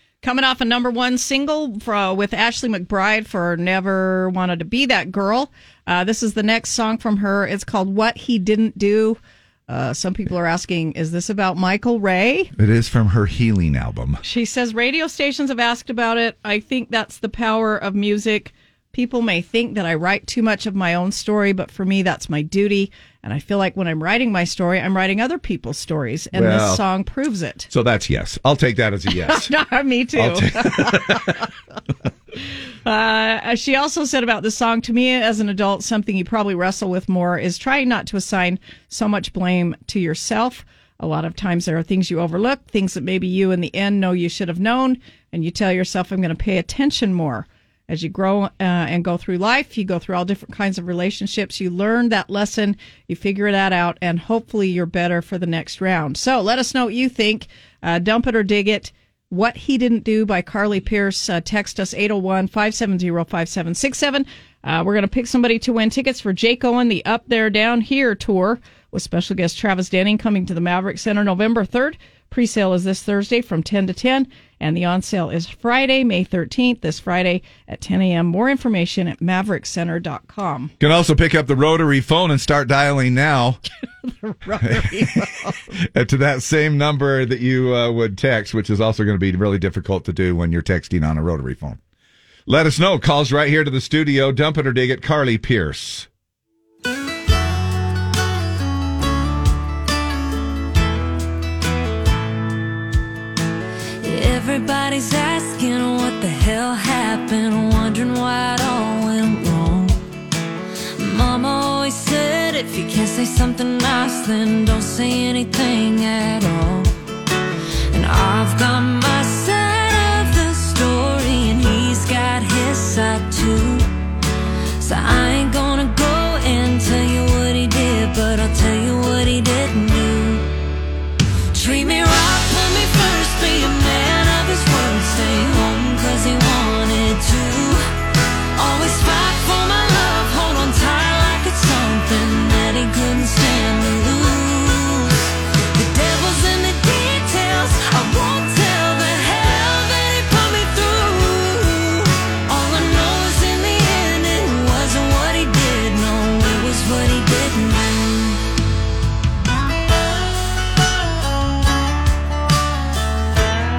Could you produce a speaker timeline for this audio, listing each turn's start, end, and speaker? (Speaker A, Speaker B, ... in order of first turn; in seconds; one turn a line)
Speaker A: 0.2-12.5
Speaker B: 12.6-14.2
Speaker A: 14.2-27.7
Speaker B: 26.3-26.8
Speaker B: 27.7-29.5
Speaker A: 29.2-31.2
Speaker B: 30.2-31.4
Speaker A: 32.9-80.7
Speaker B: 80.8-83.6
Speaker A: 84.4-85.1
Speaker B: 84.6-91.8
Speaker B: 92.5-96.1
Speaker C: 104.0-110.0
Speaker C: 111.0-116.9
Speaker C: 117.9-123.9
Speaker C: 124.8-130.5
Speaker C: 131.5-137.9
Speaker C: 138.6-158.4